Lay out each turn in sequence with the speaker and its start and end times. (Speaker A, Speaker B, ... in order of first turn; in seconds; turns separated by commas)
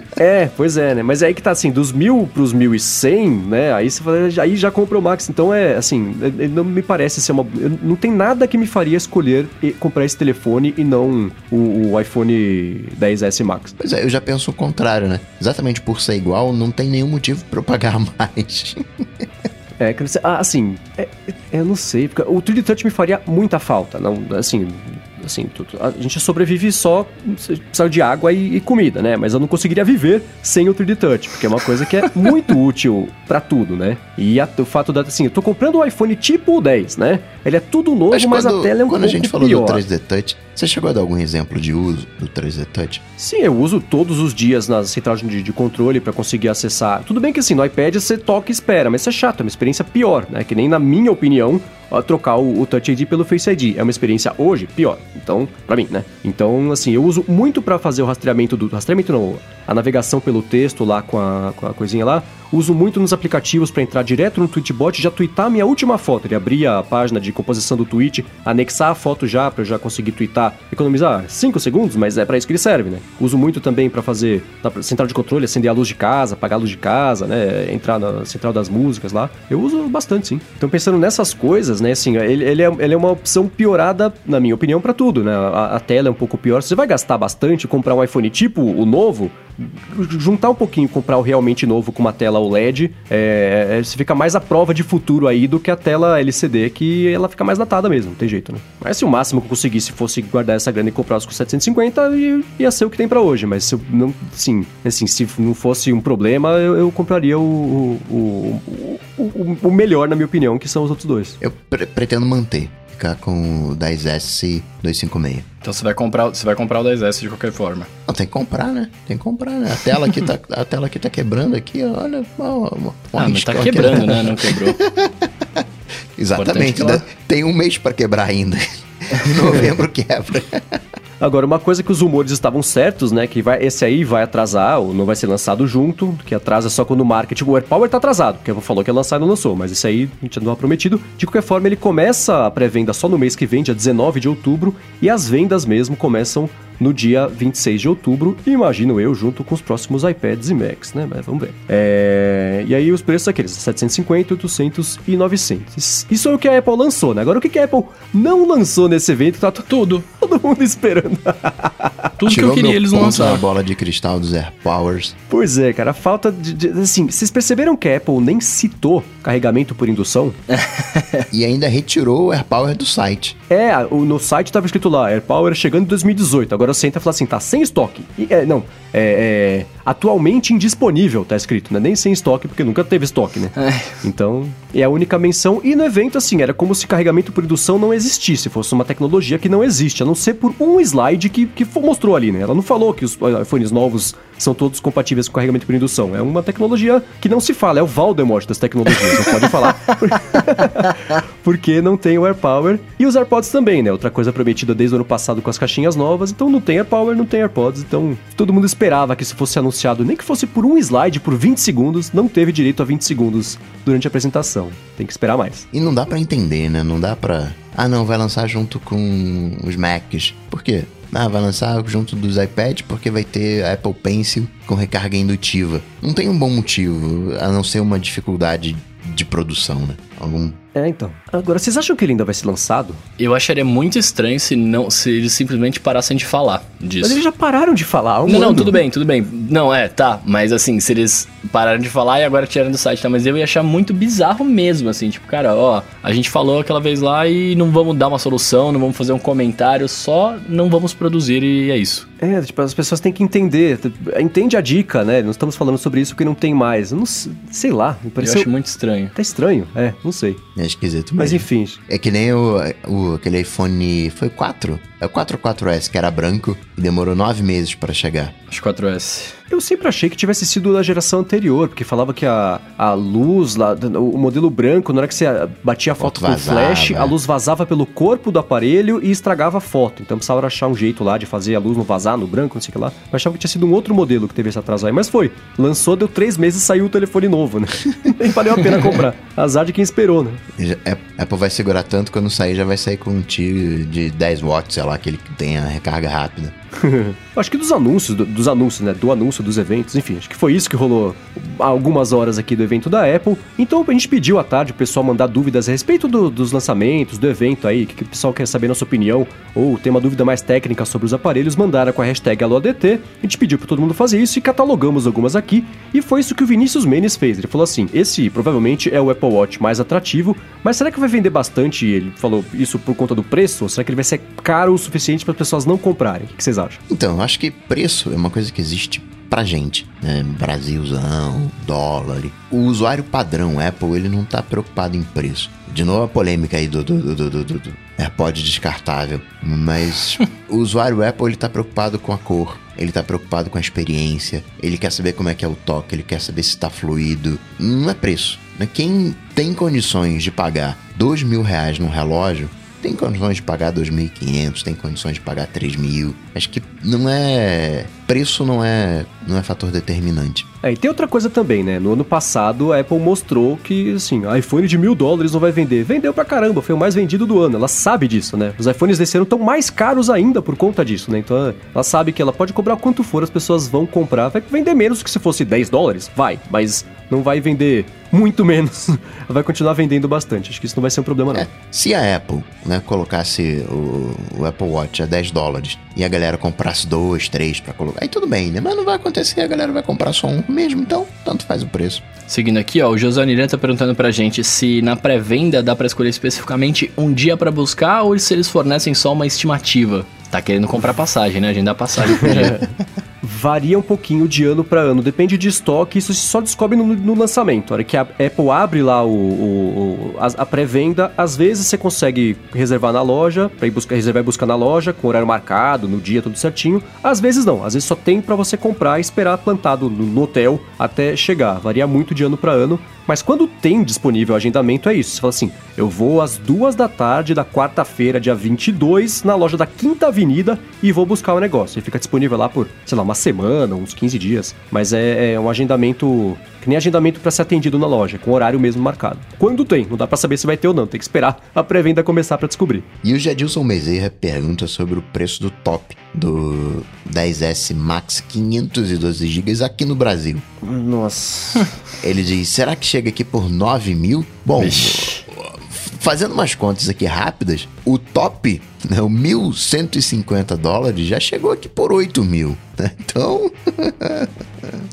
Speaker A: 0.2-13.8, Speaker B: 13.8-19.3, Speaker A: 19.8-39.8, Speaker B: 38.1-43.0, Speaker A: 43.2-111.4, Speaker B: 111.4-115.5, Speaker C: 115.6-117.9, Speaker B: 118.1-125.6, Speaker C: 123.2-124.8, Speaker B: 126.2-130.8, Speaker C: 126.4-127.0, Speaker A: 131.2-162.1, Speaker C: 159.7-160.1, Speaker C: 162.2-163.4, Speaker B: 162.3-165.2, Speaker A: 165.3-170.4, Speaker C: 170.6-171.2, Speaker B: 171.3-173.4, Speaker A: 173.5-215.7, Speaker C: 183.6-183.9, Speaker B: 215.7-230.6, Speaker A: 230.7-233.0, Speaker C: 233.2-237.2, Speaker A: 237.0-238.8, Speaker C: 238.3-252.1, Speaker A: 252.2-258.5, Speaker C: 258.2-259.1, Speaker A: 259.1-260.4, Speaker B: 260.6-268.3, Speaker A: 261.2-261.8, Speaker C: 268.5-269.4, Speaker A: 269.5-290.4, Speaker B: 276.0-277.1, Speaker B: 290.6-296.5, Speaker A: 296.8-326.8, Speaker B: 326.9-360.5, Speaker A: 360.6-381.5, Speaker B: 381.3-392.1, Speaker C: 392.3-402.6, Speaker A: 402.1-402.7, Speaker A: 403.2-442.9, Speaker B: 443.0-450.4, Speaker A: 450.6-451.7, Speaker B: 452.0-464.8, Speaker C: 454.6-455.2